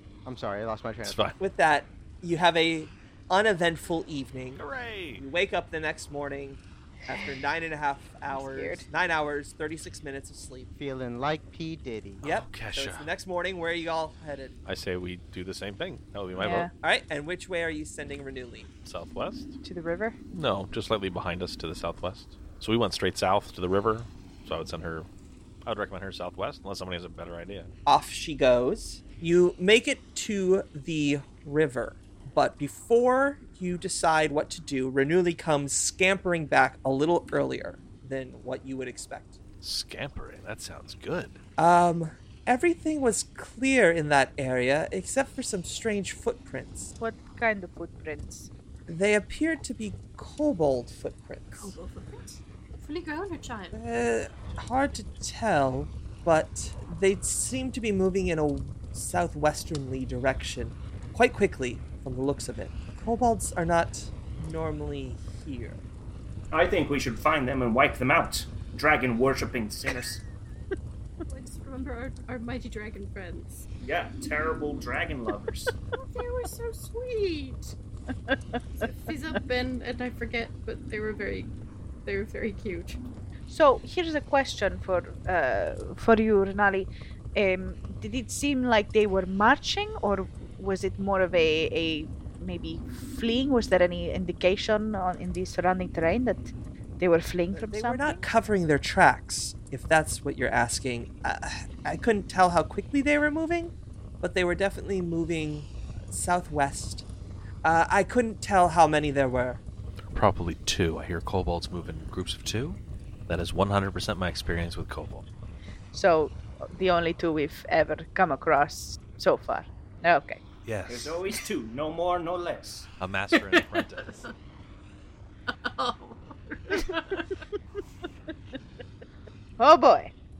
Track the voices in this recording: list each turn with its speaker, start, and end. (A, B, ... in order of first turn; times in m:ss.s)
0:00.2-0:01.3 A
0:01.0-0:01.4 B
0:01.4-0:04.6 C
0:04.6-0:05.2 B
0:05.2-0:10.7 C
0:08.3-0:08.9 D
0:10.8-0:12.2 A
0:12.2-0:13.1 B
0:12.2-0:14.6 C
0:14.6-0:16.7 B
0:16.4-0:16.7 D
0:16.8-0:18.7 C
0:18.8-0:19.6 B
0:19.6-0:20.2 D
0:20.3-0:25.1 B
0:25.6-0:27.7 B
0:27.8-0:39.4 C
0:39.6-0:41.4 B
0:41.6-0:46.9 C
0:47.0-0:48.5 D
0:48.9-0:51.7 C
0:51.6-0:53.8 E
0:53.7-1:05.8 C
1:06.5-1:10.2 F
1:11.3-1:13.7 E
1:13.8-1:15.7 F
1:15.9-1:17.7 E
1:18.8-1:21.5 E
1:22.0-1:23.0 E
1:23.5-1:38.2 D
1:37.5-1:47.0 C
1:47.6-1:49.6 C
1:50.0-1:55.2 B
1:55.9-2:00.4 D
2:00.6-2:01.3 B
2:00.9-2:02.9 F
2:03.0-2:04.3 B
2:03.3-2:04.3 E
2:05.5-2:07.4 E
2:09.6-2:10.2 D